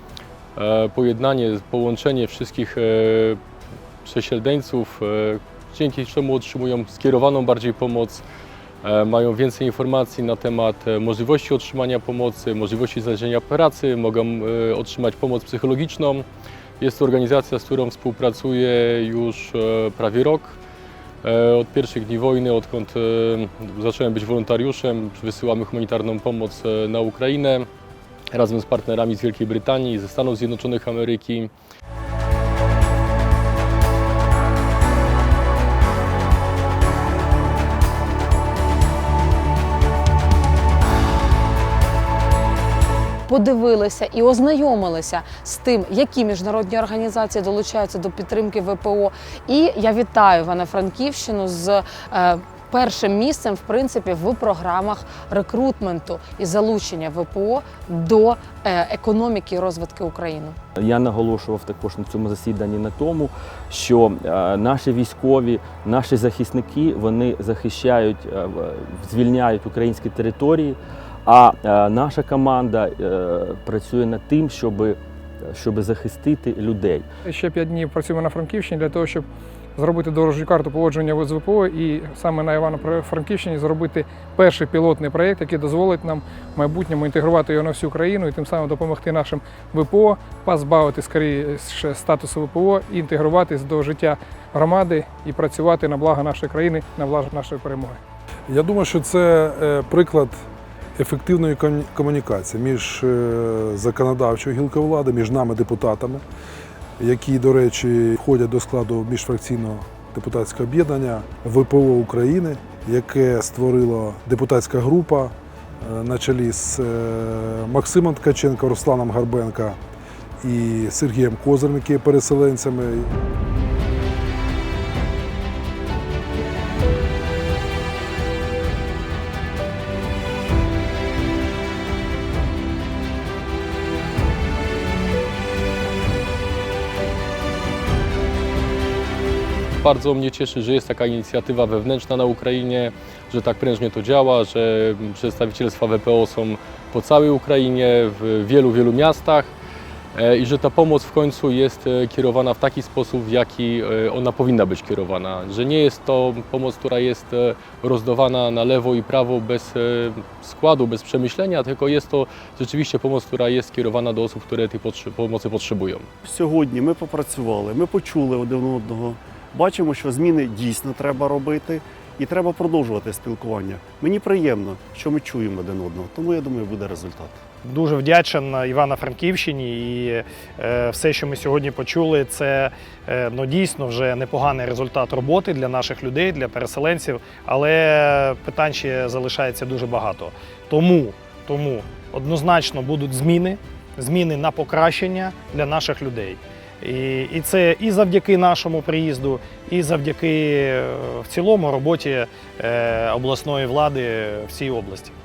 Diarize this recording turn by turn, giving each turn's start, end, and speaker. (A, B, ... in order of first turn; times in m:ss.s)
0:00.6-0:03.4 A
0:04.0-0:08.2 A
0:08.8-0:16.2 A
0:16.8-0:20.6 A
0:21.2-0:27.7 A
0:28.3-0:31.5 A
0:43.3-1:00.6 B
1:00.8-1:15.0 C
1:15.5-1:17.1 C
1:17.3-1:19.2 D
1:19.8-1:38.0 D
1:38.5-1:40.4 E
1:41.0-1:46.2 E
1:47.0-1:59.8 E
2:00.4-2:03.1 E
2:19.8-2:29.5 A
2:30.2-2:46.1 A
2:46.2-2:57.4 F
2:57.6-3:25.1 G